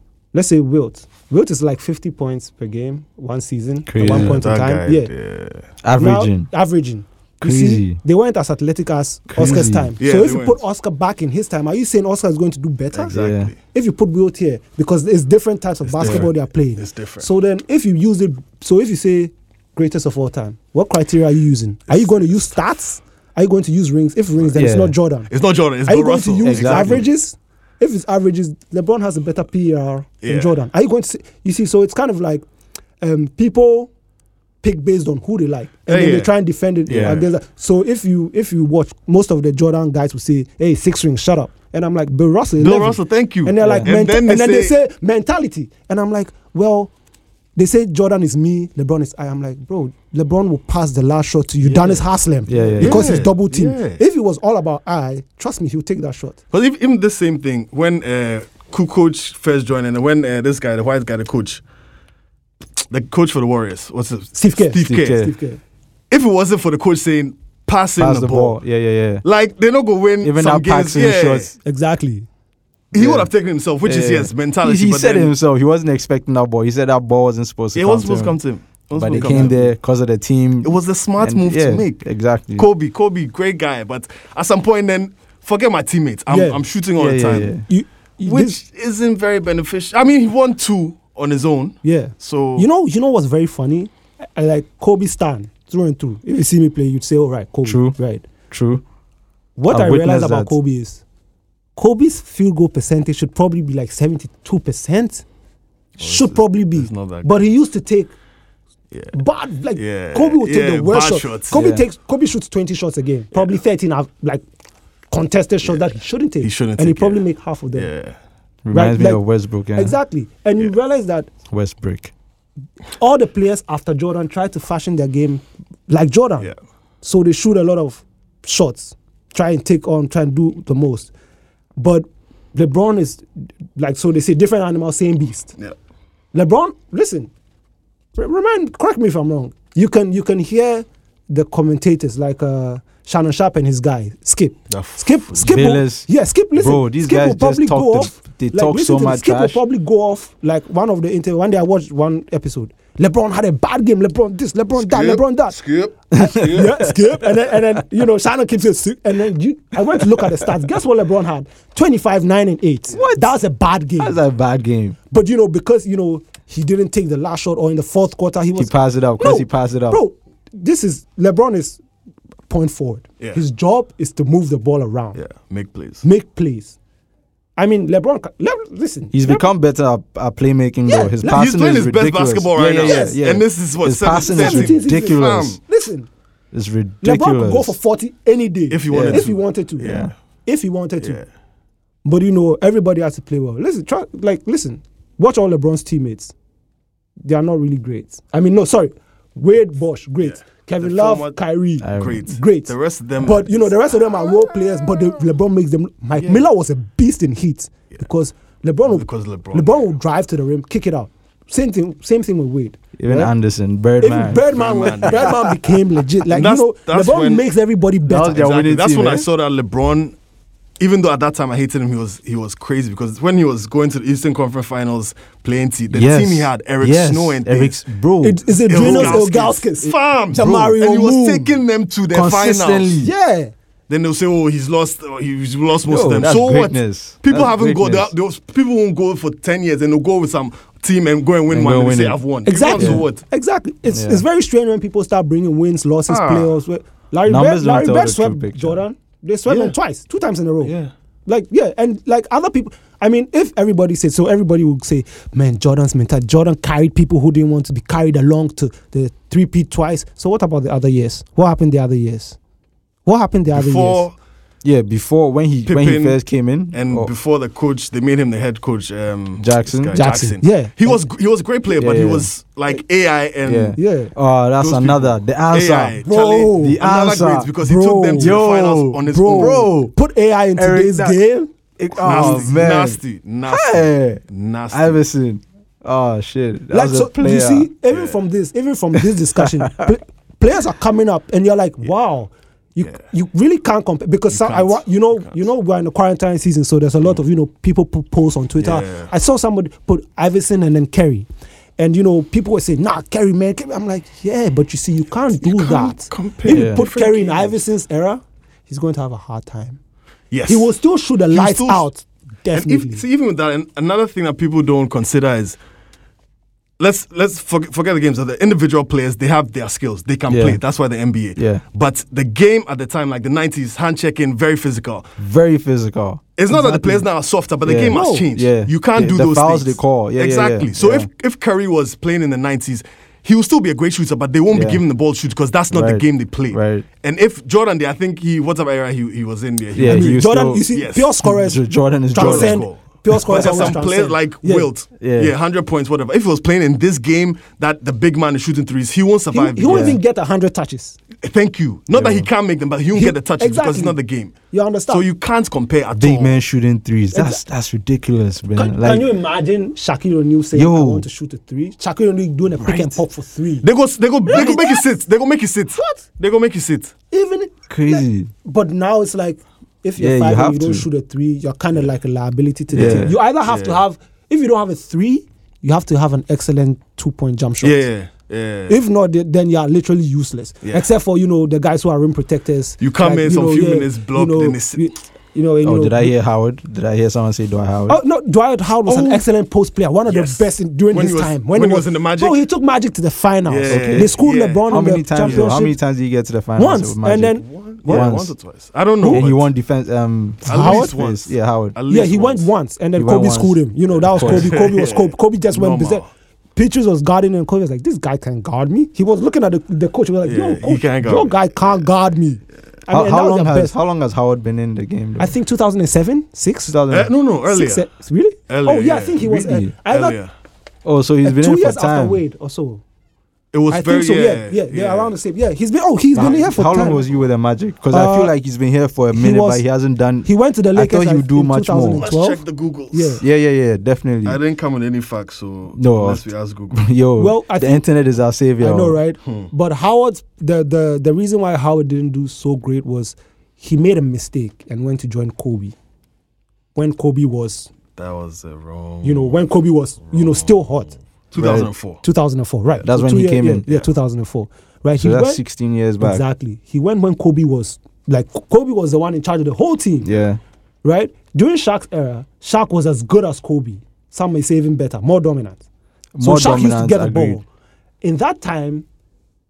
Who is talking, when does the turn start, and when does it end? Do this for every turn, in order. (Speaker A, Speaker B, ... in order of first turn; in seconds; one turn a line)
Speaker A: 0.3-5.1
Speaker B: 3.9-4.4
Speaker C: 4.0-5.6
Speaker B: 5.8-6.5
Speaker A: 6.0-25.3
Speaker B: 7.4-8.0
Speaker B: 9.3-9.9
Speaker C: 9.4-10.6
Speaker C: 12.9-13.6
Speaker B: 13.1-13.5
Speaker C: 15.9-17.3
Speaker B: 16.0-16.3
Speaker C: 21.9-22.5
Speaker B: 24.5-24.9
Speaker C: 25.3-27.1
Speaker A: 25.9-32.4
Speaker B: 26.4-27.0
Speaker C: 30.2-30.5
Speaker A: 33.0-33.9
Speaker A: 34.6-46.9
Speaker C: 35.9-36.3
Speaker C: 36.9-37.3
Speaker B: 36.9-37.1
Speaker C: 42.6-44.8
Speaker B: 43.6-44.0
Speaker A: 47.5-56.4
Speaker C: 51.6-52.0
Speaker B: 52.5-53.2
Speaker C: 52.8-54.0
Speaker C: 56.5-61.6
Speaker C: 62.9-65.3
Speaker A: 64.3-65.6
Speaker B: 64.9-65.3
Speaker C: 66.1-68.6
Speaker B: 68.0-69.2
Speaker C: 69.2-71.5
Speaker B: 70.2-71.5
Speaker A: 71.6-72.3
Speaker B: 72.9-73.3
Speaker C: 72.9-75.3
Speaker B: 73.8-78.4
Speaker C: 77.8-79.7
Speaker B: 79.0-82.7
Speaker A: 79.1-79.6
Speaker C: 80.6-82.0
Speaker C: 82.5-87.5
Speaker A: 86.3-86.6
Speaker B: 87.0-87.7
Speaker A: 87.7-88.5
Speaker C: 88.2-92.7
Speaker A: 91.8-98.2
Speaker B: 97.6-98.0
Speaker B: 98.5-98.8
Speaker A: 99.5-101.0
Speaker B: 99.7-100.5
Speaker A: 101.8-105.2
Speaker C: 106.0-107.3
Speaker A: 106.0-108.1
Speaker A: 109.1-114.4
Speaker C: 109.8-111.7
Speaker B: 111.5-111.8
Speaker C: 113.3-113.6
Speaker A: 115.1-117.9
Speaker C: 116.4-117.2
Speaker C: 117.7-118.2
Speaker B: 118.6-120.0
Speaker A: 118.7-119.2
Speaker A: 119.8-121.3
Speaker B: 121.5-122.1
Speaker A: 123.0-131.1
Speaker A: 131.8-133.2
Speaker A: 133.8-135.5
Speaker A: 136.3-137.3
Speaker A: 138.1-155.6
Speaker C: 144.7-145.5
Speaker B: 145.4-149.6
Speaker C: 154.8-156.9
Speaker A: 156.1-164.2
Speaker B: 156.2-156.7
Speaker B: 162.9-163.3
Speaker B: 164.0-165.0
Speaker A: 165.1-171.8
Speaker B: 168.6-170.0
Speaker A: 172.5-175.2
Speaker C: 175.1-176.0
Speaker A: 176.0-176.8
Speaker A: 177.6-179.5
Speaker B: 179.1-185.6
Speaker A: 180.9-181.5
Speaker C: 181.2-185.6
Speaker A: 182.8-183.2
Speaker A: 184.2-186.1
Speaker B: 186.5-187.8
Speaker A: 187.0-191.2
Speaker C: 188.7-190.1
Speaker B: 188.9-189.2
Speaker B: 189.8-190.1
Speaker C: 191.0-191.2
Speaker A: 192.0-196.3
Speaker A: 197.2-213.3
Speaker C: 200.2-201.4
Speaker B: 201.8-202.2
Speaker C: 201.9-204.5
Speaker C: 206.2-206.4
Speaker C: 208.9-209.8
Speaker B: 213.0-215.4
Speaker A: 214.0-218.4
Speaker C: 214.3-215.5
Speaker C: 216.3-217.5
Speaker B: 218.0-219.2
Speaker C: 218.2-220.1
Speaker C: 220.8-227.8
Speaker B: 225.9-229.2
Speaker A: 228.2-231.6
Speaker C: 228.6-233.1
Speaker B: 230.3-230.8
Speaker B: 232.1-233.1
Speaker A: 233.0-233.5
Speaker C: 233.9-243.2
Speaker B: 235.9-238.1
Speaker B: 241.5-242.2
Speaker A: 242.5-250.7
Speaker B: 242.7-243.1
Speaker B: 243.9-244.2
Speaker C: 246.1-246.5
Speaker B: 247.2-248.8
Speaker C: 249.5-249.8
Speaker C: 250.6-250.9
Speaker A: 251.2-262.4
Speaker A: 263.0-264.1
Speaker C: 263.5-264.1
Speaker B: 264.6-267.1
Speaker C: 265.7-266.2
Speaker C: 266.7-273.8
Speaker B: 269.4-270.0
Speaker A: 269.9-271.0
Speaker B: 271.8-272.3
Speaker B: 273.4-276.0
Speaker A: 273.8-274.1
Speaker C: 274.6-279.7
Speaker A: 276.0-276.8
Speaker B: 276.6-277.5
Speaker A: 277.6-278.4
Speaker B: 278.1-279.9
Speaker A: 279.0-282.7
Speaker B: 280.6-281.2
Speaker B: 281.8-287.7
Speaker C: 282.0-285.0
Speaker A: 286.7-309.8
Speaker C: 287.9-288.2
Speaker B: 289.4-289.9
Speaker C: 294.3-295.4
Speaker C: 298.6-299.1
Speaker C: 305.4-307.6
Speaker B: 306.5-306.8
Speaker C: 310.3-310.7
Speaker A: 310.5-313.0
Speaker C: 311.3-311.9
Speaker C: 312.5-315.6
Speaker C: 316.8-325.1
Speaker B: 320.3-320.6
Speaker B: 321.4-321.6
Speaker B: 325.2-327.0
Speaker C: 326.4-340.2
Speaker B: 327.6-331.1
Speaker A: 327.9-328.2
Speaker B: 334.5-334.8
Speaker B: 335.7-336.9
Speaker B: 339.7-340.6
Speaker A: 339.8-344.7
Speaker C: 340.7-341.1
Speaker B: 341.2-342.6
Speaker C: 342.1-350.0
Speaker B: 343.2-343.8
Speaker B: 345.0-345.3
Speaker A: 349.3-351.0
Speaker B: 349.7-350.0
Speaker C: 351.2-354.3
Speaker B: 351.9-352.3
Speaker A: 352.9-354.0
Speaker A: 354.5-355.0
Speaker C: 354.9-356.4
Speaker B: 356.0-359.1
Speaker A: 357.1-357.4
Speaker A: 358.5-363.7
Speaker B: 360.5-361.1
Speaker B: 362.6-363.0
Speaker C: 363.6-366.9
Speaker A: 364.2-364.8
Speaker A: 365.8-366.0
Speaker A: 367.1-377.8
Speaker B: 367.7-368.3
Speaker B: 370.0-370.9
Speaker C: 372.7-373.8
Speaker B: 372.7-373.1
Speaker C: 377.6-378.8
Speaker A: 378.7-386.1
Speaker C: 382.8-384.8
Speaker B: 385.6-388.0
Speaker A: 387.9-395.8
Speaker C: 388.9-389.2
Speaker C: 390.1-392.4
Speaker C: 393.5-395.6
Speaker B: 393.7-398.3
Speaker A: 396.6-398.1
Speaker C: 397.4-399.5
Speaker B: 399.1-401.8
Speaker C: 400.4-402.5
Speaker A: 400.5-400.9
Speaker A: 401.9-406.0
Speaker B: 403.0-403.6
Speaker C: 404.1-406.1
Speaker B: 404.1-404.5
Speaker A: 406.6-413.7
Speaker C: 410.2-411.8
Speaker B: 412.9-415.3
Speaker A: 415.2-416.8
Speaker B: 416.7-417.1
Speaker C: 416.9-417.8
Speaker A: 417.5-420.2
Speaker C: 418.5-420.3
Speaker B: 419.4-419.7
Speaker B: 420.8-422.2
Speaker A: 421.2-422.8
Speaker C: 423.5-425.1
Speaker A: 423.7-427.0
Speaker B: 426.1-432.1
Speaker C: 426.2-426.4
Speaker A: 427.9-428.3
Speaker A: 429.1-429.6
Speaker A: 430.2-433.2
Speaker C: 431.9-433.2
Speaker B: 433.2-434.4
Speaker C: 434.2-436.9
Speaker B: 435.8-439.0
Speaker A: 437.2-437.8
Speaker A: 438.6-445.8
Speaker C: 439.2-439.5
Speaker A: 446.8-447.7
Speaker C: 448.0-449.5
Speaker A: 449.0-450.9
Speaker C: 450.1-450.6
Speaker C: 451.3-452.0
Speaker B: 451.4-451.7
Speaker A: 452.0-455.4
Speaker B: 452.8-453.6
Speaker B: 455.0-456.2
Speaker A: 456.0-460.1
Speaker B: 460.0-460.4
Speaker A: 460.8-465.6
Speaker B: 466.1-467.4
Speaker A: 466.2-467.4
Speaker A: 468.0-468.8